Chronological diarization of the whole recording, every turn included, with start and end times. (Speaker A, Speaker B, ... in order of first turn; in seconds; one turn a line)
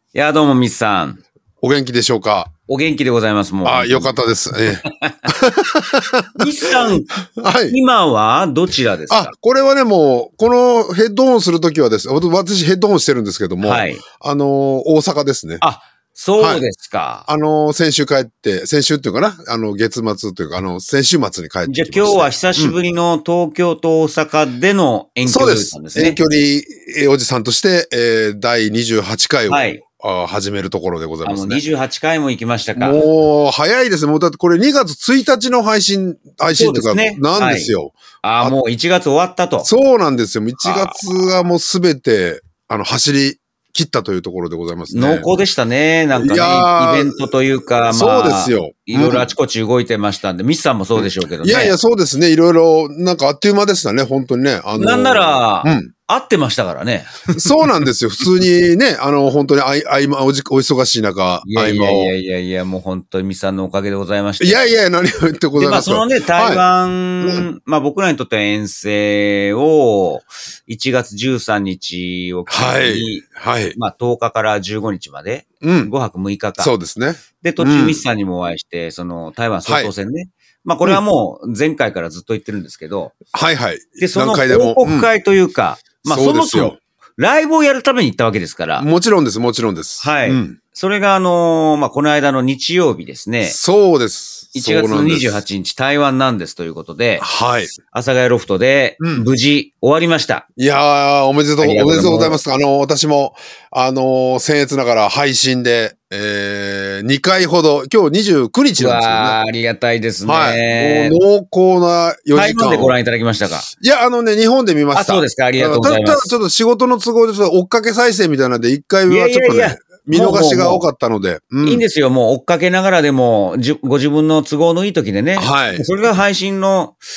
Speaker A: 0.1-1.2
Speaker B: 1.6-2.5
Speaker A: 2.7-4.2
Speaker B: 3.6-7.8
Speaker A: 4.8-5.2
Speaker A: 6.4-7.1
Speaker A: 7.7-9.3
Speaker B: 9.1-15.6
Speaker A: 13.6-14.0
Speaker A: 15.6-17.3
Speaker B: 16.4-16.6
Speaker B: 17.3-22.8
Speaker A: 21.6-26.2
Speaker B: 25.2-31.6
Speaker A: 29.5-29.8
Speaker A: 31.2-33.0
Speaker B: 32.8-38.5
Speaker A: 36.5-37.7
Speaker A: 38.2-39.7
Speaker B: 39.6-45.3
Speaker A: 40.6-41.1
Speaker A: 44.9-51.7
Speaker B: 46.1-47.3
Speaker B: 47.8-49.3
Speaker B: 50.9-55.9
Speaker A: 54.8-57.8
Speaker B: 57.3-62.1
Speaker A: 61.4-64.7
Speaker B: 64.4-66.6
Speaker A: 65.6-76.7
Speaker B: 67.2-67.5
Speaker B: 72.5-73.8
Speaker B: 75.6-75.9
Speaker B: 76.6-78.0
Speaker A: 77.4-83.1
Speaker B: 79.6-79.9
Speaker B: 83.3-85.1
Speaker A: 84.0-88.9
Speaker B: 86.0-86.8
Speaker B: 88.8-90.6
Speaker A: 90.0-93.6
Speaker B: 93.4-95.4
Speaker A: 94.5-100.4
Speaker B: 97.2-97.7
Speaker B: 99.0-99.2
Speaker B: 100.6-109.4
Speaker A: 101.6-102.4
Speaker A: 108.8-111.2
Speaker B: 110.2-113.0
Speaker A: 112.3-113.7
Speaker B: 113.8-121.8
Speaker A: 114.9-116.3
Speaker A: 119.1-120.8
Speaker A: 121.6-127.0
Speaker B: 125.3-125.8